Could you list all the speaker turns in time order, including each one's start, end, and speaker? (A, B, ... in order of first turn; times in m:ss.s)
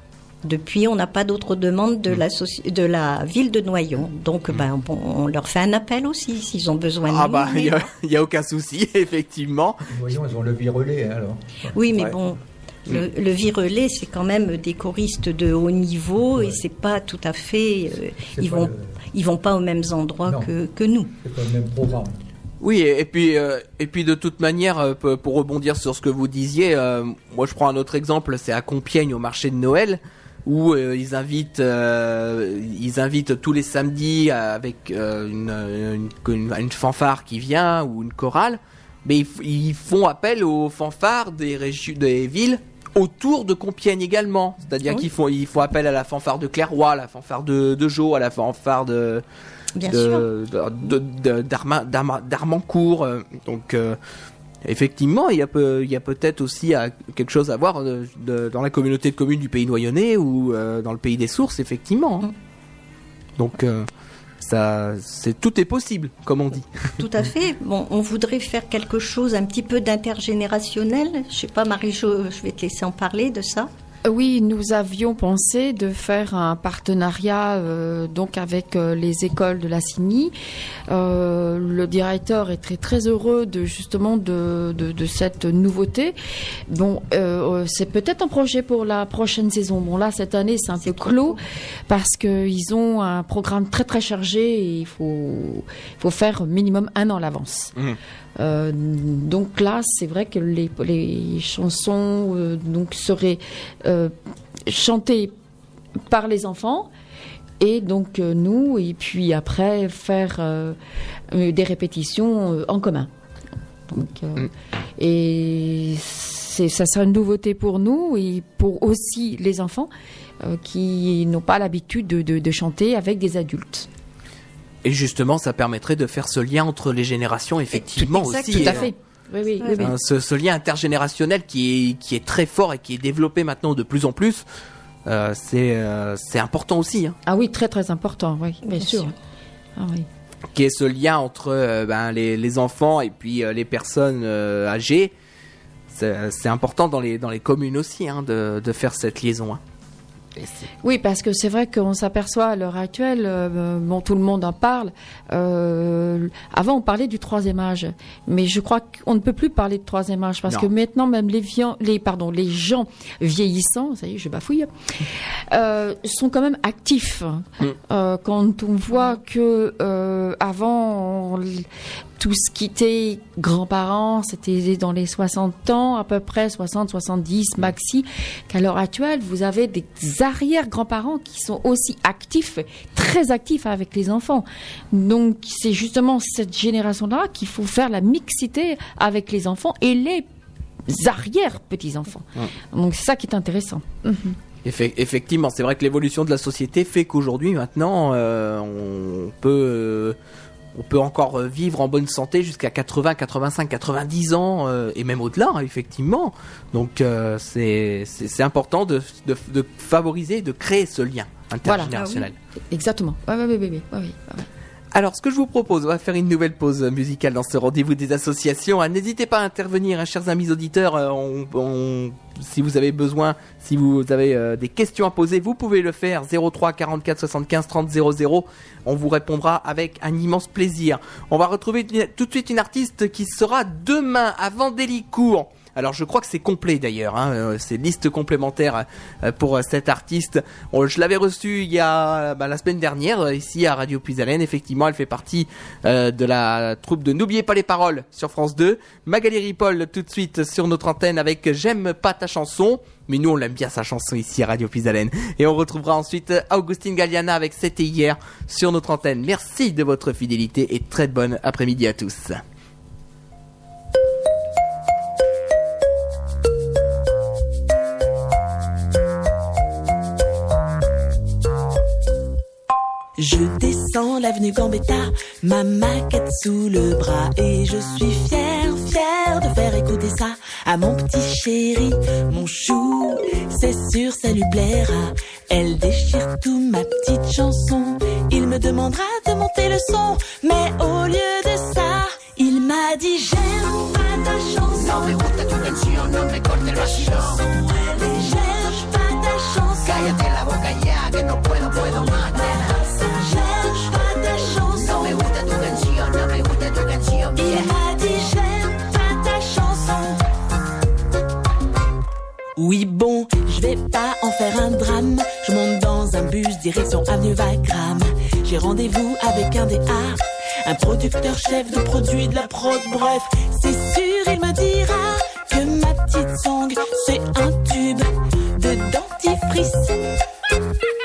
0:00.4-0:07.8 A
0:07.1-0:09.8 B
0:09.9-0:12.2 C
0:11.8-0:21.1 A
0:16.3-0:16.6 C
0:18.3-0:18.9 C
0:21.2-0:22.2 C
0:22.6-0:49.2 B
0:49.8-0:50.2 A
0:49.8-0:54.0 B
0:54.6-1:02.3 B
1:03.4-1:03.9 B
1:04.4-1:06.9 B
1:07.0-1:13.7 A
1:14.0-1:20.3 D
1:20.9-1:26.2 D
1:26.7-1:37.7 D
1:30.8-1:31.4 A
1:38.4-1:44.1 D
1:44.6-1:45.3 D
1:46.1-1:46.9 D
1:47.6-1:50.8 D
1:51.3-1:53.1 D
1:53.9-2:03.9 D
2:04.8-2:08.9 B
2:07.7-2:08.9 A
2:08.5-2:09.9 D
2:09.6-2:09.8 A
2:09.8-2:14.4 B
2:15.0-2:17.2 B
2:17.2-2:19.1 D
2:18.6-2:19.1 A
2:19.8-2:20.1 D
2:20.5-2:25.1 B
2:25.9-2:29.6 B
2:30.4-2:30.6 B
2:30.8-2:44.7 D
2:45.5-2:51.6 D
2:52.2-3:10.2 D
3:10.9-3:14.4 D
3:14.6-3:20.2 B
3:20.7-3:32.3 B
3:31.6-3:31.9 D
3:31.8-3:32.3 A
3:32.7-3:34.5 D
3:34.9-4:22.4 B
4:33.2-5:00.8 E
5:01.3-5:05.9 E
5:07.3-5:10.2 E
5:12.6-5:30.1 E